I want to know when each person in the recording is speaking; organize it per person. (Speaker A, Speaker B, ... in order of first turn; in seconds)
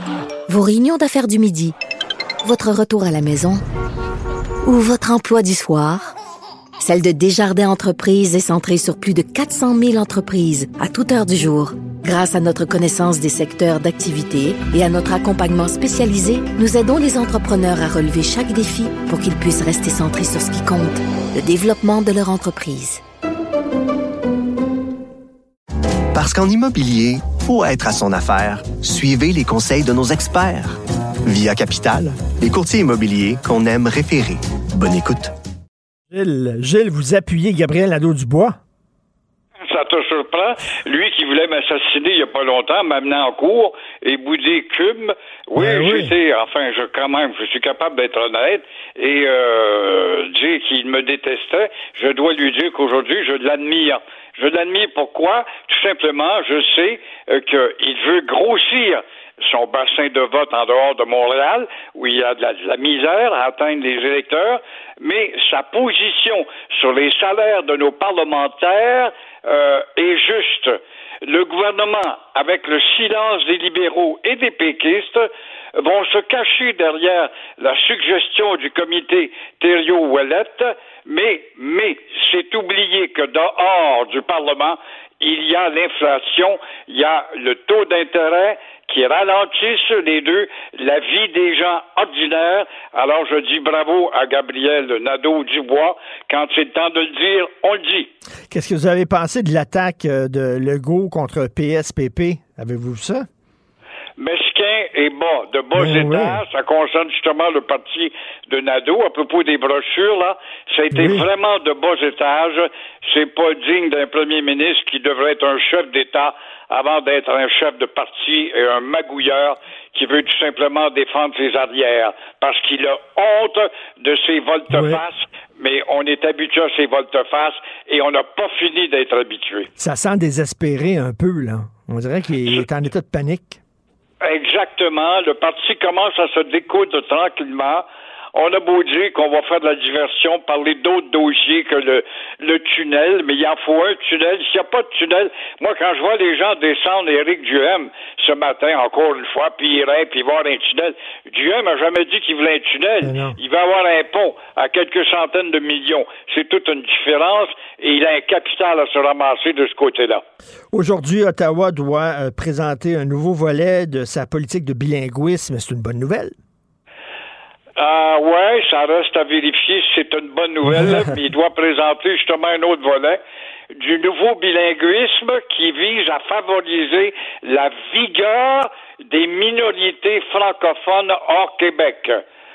Speaker A: 0.5-1.8, 2.4-3.6, 4.7-6.2, 6.8-23.0
Speaker B: 26.1-35.3
Speaker C: 36.1-38.6, 45.6-46.1, 98.5-103.2, 105.8-106.4, 110.9-111.3, 124.7-125.0, 129.8-133.6, 153.0-153.4, 160.7-166.3
Speaker D: 39.6-98.1, 104.2-129.7, 134.2-160.2, 167.8-173.2, 173.8-182.2